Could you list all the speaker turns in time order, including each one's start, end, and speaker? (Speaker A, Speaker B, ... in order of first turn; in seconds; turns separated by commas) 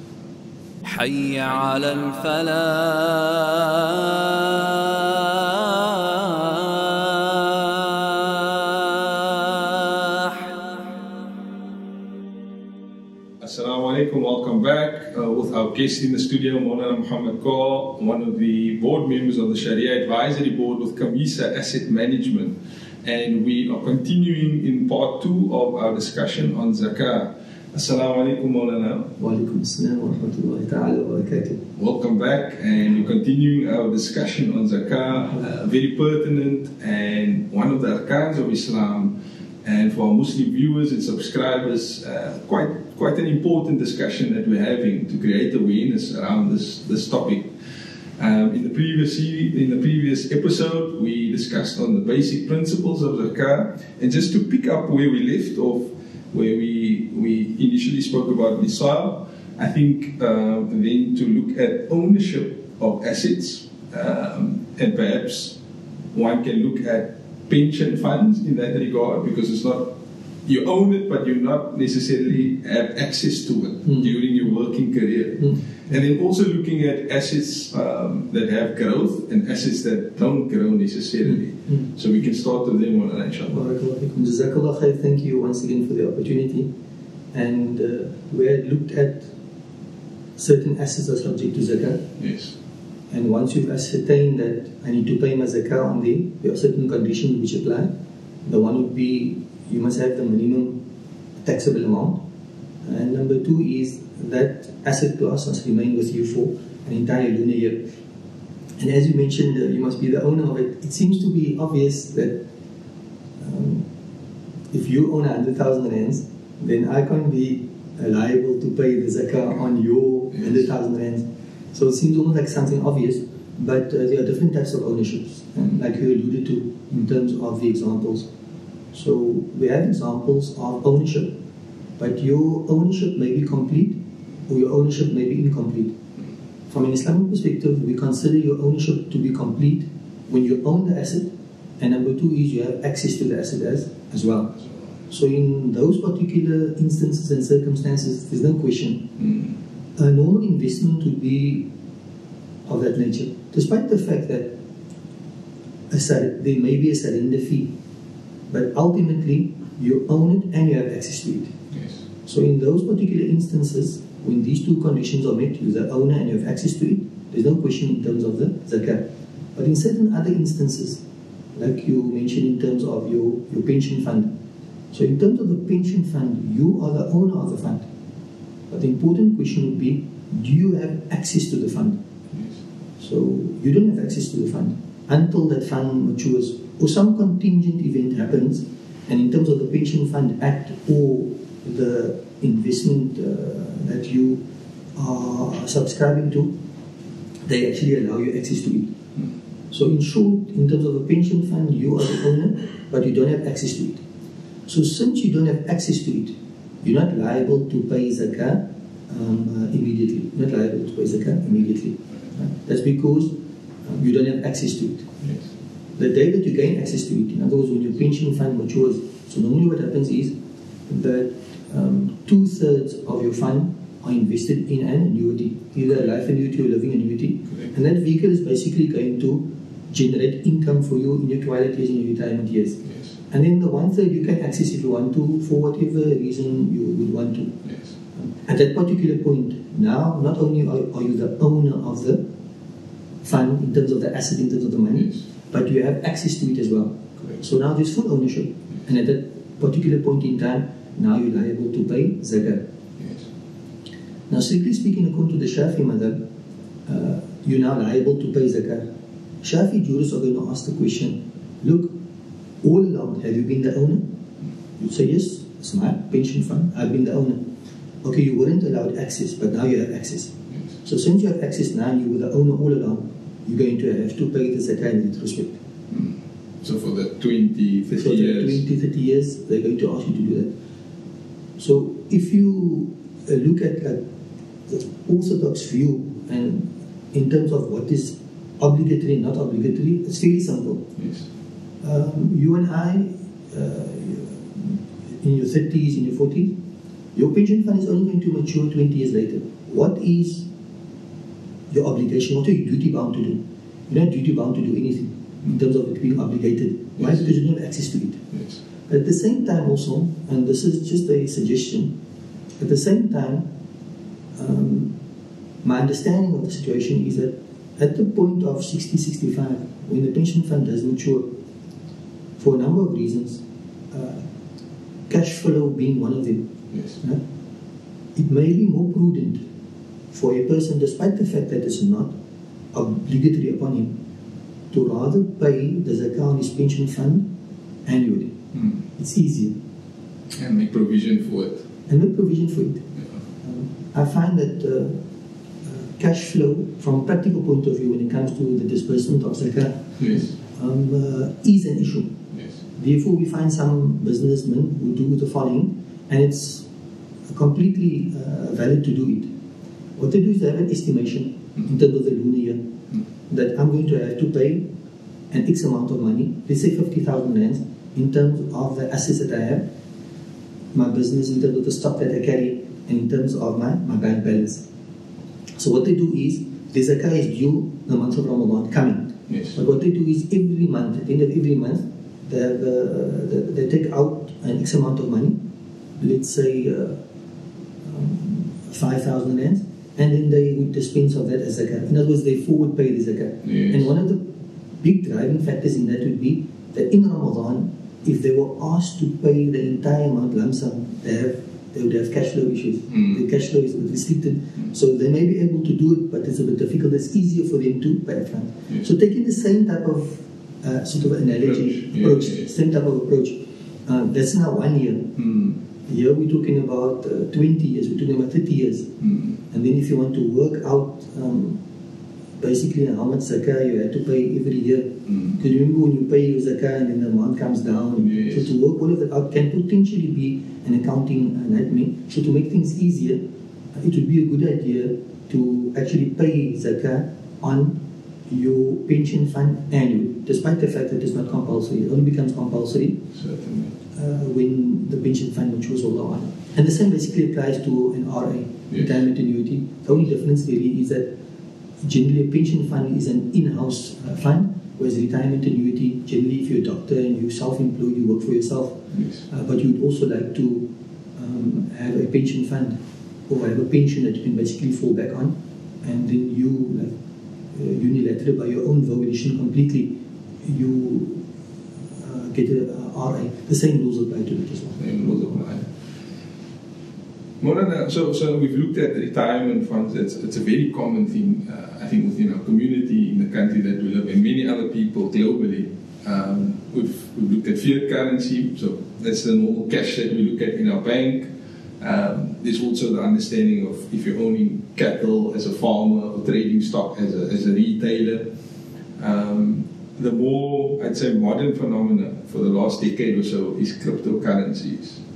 Speaker A: 0.8-10.4, Speaker B: 13.4-29.2, Speaker C: 29.2-31.6, Speaker B: 31.8-47.5, Speaker B: 48.2-65.6, Speaker B: 66.1-83.6, Speaker C: 83.5-86.7, Speaker C: 87.3-89.3, Speaker C: 90.4-92.0, Speaker B: 92.2-92.5, Speaker C: 93.1-97.9, Speaker C: 98.4-100.8, Speaker C: 101.4-102.2, Speaker C: 102.8-107.8, Speaker C: 108.8-112.4, Speaker C: 113.4-113.8, Speaker C: 114.7-128.3, Speaker C: 128.9-131.3, Speaker C: 132.0-134.0, Speaker C: 134.5-135.9, Speaker C: 136.7-144.5, Speaker C: 145.1-149.1, Speaker C: 150.0-151.7, Speaker C: 152.7-154.5, Speaker C: 155.9-157.7, Speaker C: 158.5-161.5, Speaker B: 161.7-162.0, Speaker C: 162.2-169.0, Speaker C: 169.6-171.0, Speaker C: 171.6-174.3, Speaker C: 174.9-177.9, Speaker C: 178.7-182.0, Speaker C: 183.0-194.4, Speaker C: 195.0-196.5, Speaker C: 197.5-198.9, Speaker C: 199.7-204.0, Speaker C: 204.7-213.3, Speaker C: 213.8-215.1, Speaker C: 216.0-220.3, Speaker C: 220.9-237.6, Speaker C: 238.3-242.2, Speaker C: 243.2-252.6, Speaker B: 253.0-253.2, Speaker C: 254.3-256.2, Speaker C: 256.9-258.9, Speaker C: 259.4-261.9, Speaker C: 262.6-264.0, Speaker C: 264.8-267.4, Speaker C: 268.0-270.3, Speaker C: 270.8-275.6, Speaker B: 275.9-278.6, Speaker C: 278.0-280.5, Speaker C: 281.6-284.0, Speaker C: 284.7-290.9, Speaker B: 291.0-291.3, Speaker C: 291.8-296.5, Speaker C: 297.1-300.5, Speaker C: 301.7-308.2, Speaker C: 308.9-311.9, Speaker C: 312.6-313.5, Speaker C: 314.4-314.9, Speaker C: 315.6-321.3, Speaker C: 322.4-324.3, Speaker C: 325.1-327.2, Speaker C: 328.1-329.4, Speaker C: 330.1-332.1, Speaker C: 332.7-333.9, Speaker C: 334.7-337.2, Speaker C: 337.9-338.3, Speaker C: 339.0-339.5, Speaker B: 340.3-341.6, Speaker C: 341.9-342.8, Speaker C: 343.4-344.9, Speaker C: 345.7-352.1, Speaker B: 350.0-350.3, Speaker C: 352.8-356.7, Speaker C: 357.3-359.3, Speaker C: 360.0-362.6, Speaker C: 363.3-364.6, Speaker C: 365.3-369.6, Speaker C: 370.7-374.6, Speaker C: 375.6-385.4, Speaker B: 379.3-379.6, Speaker C: 386.0-387.0, Speaker C: 387.8-394.2, Speaker B: 393.5-393.8, Speaker C: 394.8-415.2, Speaker B: 415.2-415.5, Speaker C: 415.9-418.9, Speaker B: 419.1-419.3, Speaker C: 419.5-421.6, Speaker C: 422.4-433.2, Speaker C: 433.8-437.8, Speaker C: 438.3-443.0, Speaker B: 443.1-443.8, Speaker C: 443.9-451.1, Speaker C: 451.8-458.8, Speaker B: 458.9-459.2, Speaker C: 459.3-462.8, Speaker C: 463.3-466.9, Speaker C: 467.5-471.2, Speaker C: 472.0-475.5, Speaker B: 474.8-475.7, Speaker B: 477.4-498.3, Speaker B: 499.0-505.0